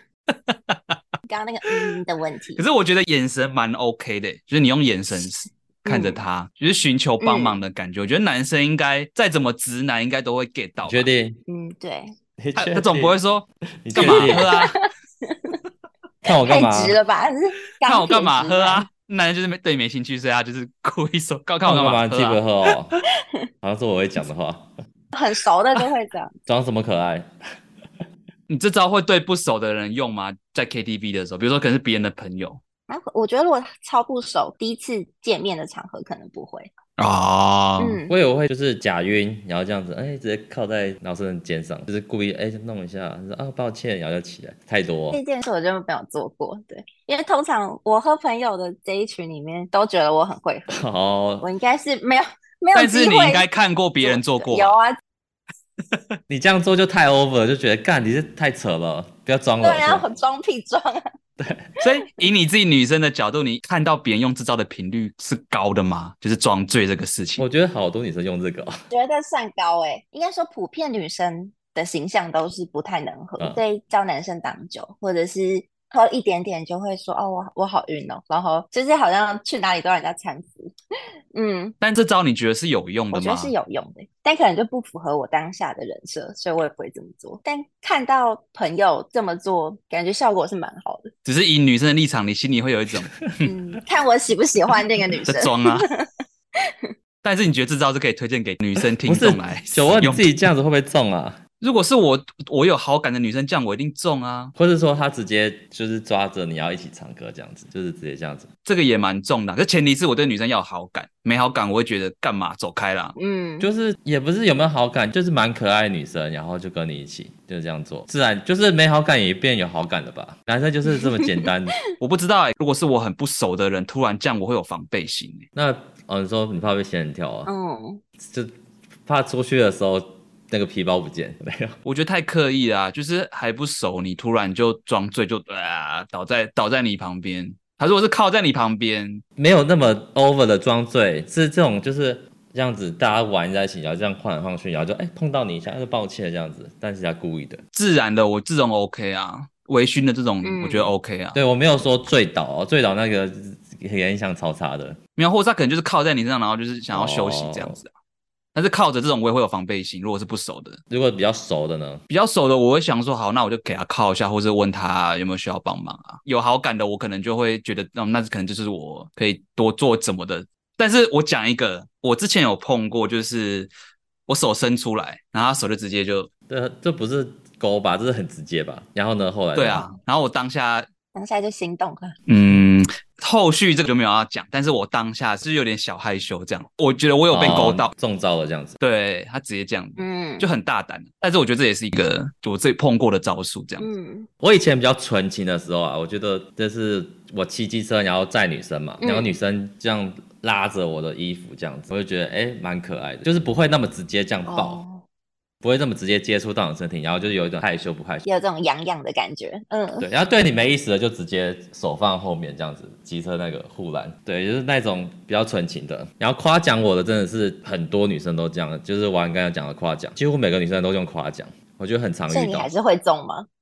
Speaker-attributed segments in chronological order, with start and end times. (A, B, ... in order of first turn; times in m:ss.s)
0:00.3-0:01.0 A
0:01.2-0:02.6 B
0:02.6-0:11.0 A
0:05.8-0:06.2 B
0:07.2-0:07.6 B
0:10.8-0:11.4 C
0:11.5-0:12.1 B
0:12.4-0:13.2 C
0:12.6-0:14.8 A
0:13.8-0:14.4 C
0:14.0-0:15.5 B
0:16.2-0:17.0 C
0:16.2-0:18.9 B
0:17.8-0:22.7 A
0:21.6-0:22.9 C
0:23.6-0:24.7 C
0:25.1-0:26.3 B
0:26.4-0:27.3 C
0:28.5-0:32.6 A
0:32.9-0:36.7 B
0:37.0-0:38.0 A
0:37.8-0:38.1 B
0:38.1-0:45.2 C
0:45.1-0:50.8 B
0:50.7-0:51.5 C
0:51.4-0:53.5 B
0:52.7-0:54.7 A
0:54.0-0:55.0 B
0:56.3-1:00.0 C
0:59.6-1:01.0 B
1:01.4-1:01.7 C
1:01.8-1:07.4 A
1:07.4-1:08.8 C
1:08.9-1:20.7 B
1:21.3-1:21.7 B
1:21.8-1:23.5 A
1:23.1-1:31.1 B
1:31.2-1:33.4 A
1:33.4-1:36.0 B
1:35.3-1:35.9 A
1:37.2-1:40.3 A
1:39.0-1:41.4 C
1:41.6-1:44.5 A
1:44.6-1:48.5 C
1:48.6-1:53.2 A
1:53.2-1:53.7 B
1:53.6-2:01.7 C
2:01.0-2:01.3 B
2:02.0-2:05.4 A
2:05.5-2:07.5 C
2:07.4-2:08.0 B
2:08.2-2:08.5 C
2:09.0-2:11.8 C
2:11.8-2:19.2 A
2:19.4-2:27.6 C
2:27.7-2:31.4 A
2:30.4-2:30.9 B
2:31.3-2:35.0 C
2:35.2-2:37.9 A
2:36.9-2:37.8 C
2:38.5-2:40.8 A
2:40.9-2:42.0 C
2:42.1-2:53.7 A
2:54.3-2:56.3 A
2:56.5-2:59.9 C
2:59.5-3:00.9 A
3:01.1-3:02.2 B
3:02.3-3:07.9 A
3:07.3-3:08.8 C
3:08.8-3:13.9 A
3:10.0-3:10.5 B
3:13.8-3:14.3 B
3:14.4-3:24.8 C
3:19.0-3:19.4 B
3:24.5-3:25.0 B
3:25.6-3:28.2 C
3:28.2-3:30.1 B
3:30.0-3:42.7 C
3:42.3-3:43.5 B